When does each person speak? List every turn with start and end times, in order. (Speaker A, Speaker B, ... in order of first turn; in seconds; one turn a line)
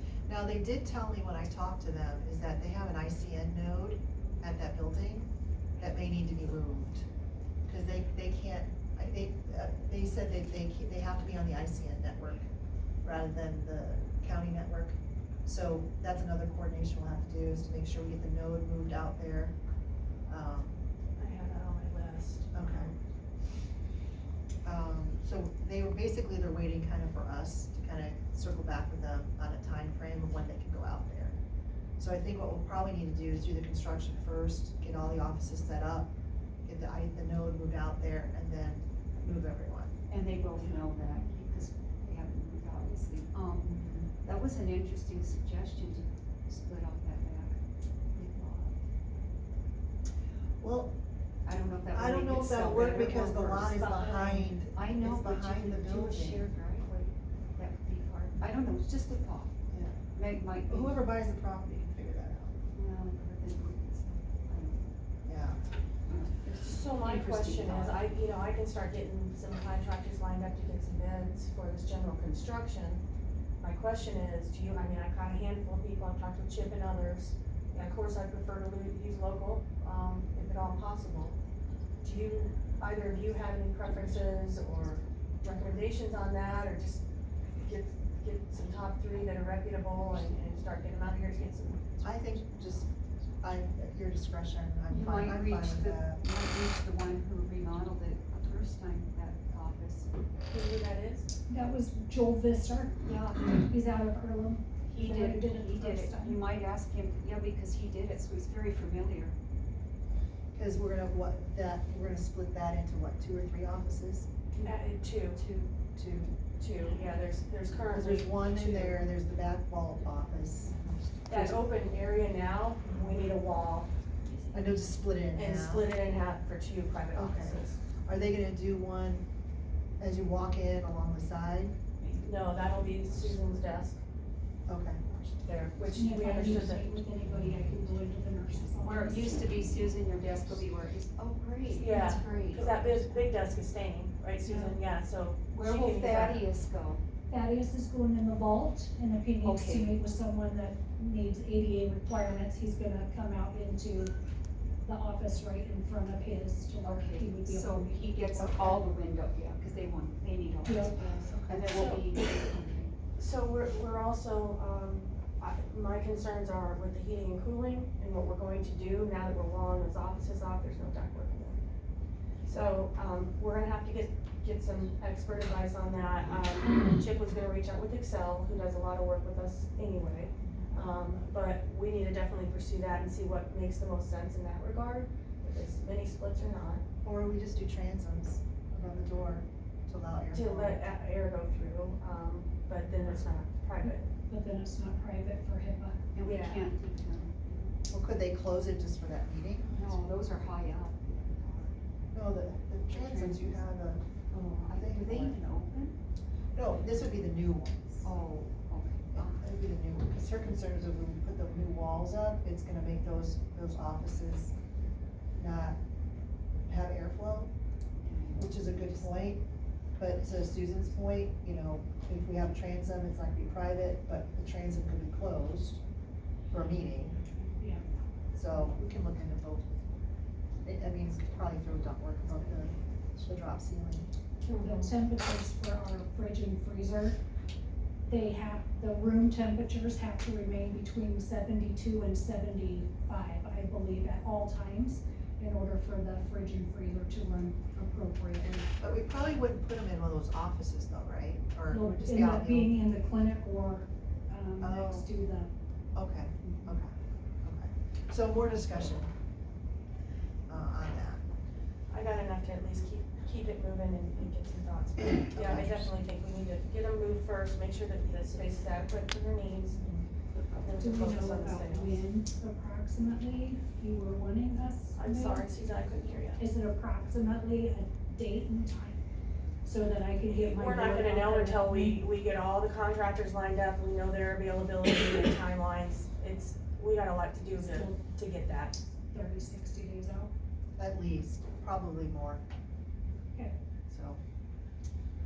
Speaker A: 0.3-7.0
Speaker A: 7.7-12.5
Speaker A: 13.0-19.5
Speaker A: 20.3-20.8
Speaker B: 21.2-22.9
Speaker A: 22.5-22.9
Speaker A: 24.6-31.4
Speaker A: 32.0-36.1
Speaker A: 36.6-39.9
Speaker C: 40.1-48.8
Speaker A: 43.8-44.1
Speaker A: 50.6-51.0
Speaker C: 51.4-59.6
Speaker A: 51.9-56.5
Speaker A: 59.7-60.0
Speaker C: 60.1-61.0
Speaker A: 60.6-62.5
Speaker C: 62.7-64.9
Speaker A: 65.2-65.6
Speaker C: 66.0-68.0
Speaker B: 66.6-73.0
Speaker B: 73.6-81.4
Speaker B: 82.0-87.0
Speaker B: 87.6-91.9
Speaker A: 92.0-92.9
Speaker A: 93.4-96.2
Speaker C: 94.9-100.1
Speaker B: 100.5-101.3
Speaker D: 101.5-106.4
Speaker C: 103.0-103.7
Speaker C: 104.8-109.3
Speaker A: 110.5-114.3
Speaker B: 114.6-115.4
Speaker C: 115.3-115.8
Speaker A: 115.9-116.3
Speaker B: 116.6-119.0
Speaker A: 117.9-121.4
Speaker B: 121.2-123.9
Speaker A: 124.5-125.9
Speaker B: 125.3-127.8
Speaker A: 127.1-129.2
Speaker A: 130.0-131.7
Speaker B: 132.2-134.0
Speaker A: 134.7-135.0
Speaker B: 135.1-136.9
Speaker D: 135.9-139.5
Speaker C: 138.8-143.3
Speaker B: 141.7-146.4
Speaker D: 144.4-144.8
Speaker C: 145.5-147.0
Speaker D: 147.3-154.1
Speaker C: 149.4-150.0
Speaker D: 154.8-158.8
Speaker C: 156.8-162.9
Speaker A: 158.4-158.8
Speaker D: 160.6-161.0
Speaker A: 161.0-161.8
Speaker B: 161.6-162.1
Speaker B: 163.2-171.6
Speaker B: 172.4-186.8
Speaker A: 187.0-190.8
Speaker B: 190.3-194.1
Speaker D: 193.8-196.0
Speaker C: 196.1-197.8
Speaker B: 196.2-196.7
Speaker A: 197.9-199.7
Speaker C: 199.7-201.8
Speaker A: 202.1-204.0
Speaker C: 202.9-203.6
Speaker C: 204.3-206.0
Speaker A: 204.7-205.4
Speaker A: 206.5-208.1
Speaker C: 208.0-209.4
Speaker A: 209.1-214.5
Speaker A: 215.3-215.8
Speaker A: 216.7-217.5
Speaker C: 218.0-218.8
Speaker A: 218.3-219.4
Speaker A: 220.0-225.8
Speaker A: 226.5-227.2
Speaker D: 227.6-227.8
Speaker A: 228.3-229.7
Speaker A: 230.6-234.1
Speaker B: 234.4-234.9
Speaker D: 234.6-237.2
Speaker D: 238.1-248.7
Speaker A: 248.8-252.8
Speaker D: 251.7-255.5
Speaker A: 254.6-255.1
Speaker A: 255.9-259.1
Speaker A: 260.5-261.2
Speaker B: 261.9-269.8
Speaker A: 265.3-265.9
Speaker A: 269.8-270.1
Speaker B: 270.6-272.0
Speaker D: 270.8-275.5
Speaker B: 274.9-276.4
Speaker D: 276.4-279.0
Speaker D: 279.6-282.1
Speaker B: 280.2-288.8
Speaker D: 287.5-288.0
Speaker D: 289.0-290.3
Speaker A: 290.8-292.4
Speaker A: 293.9-294.2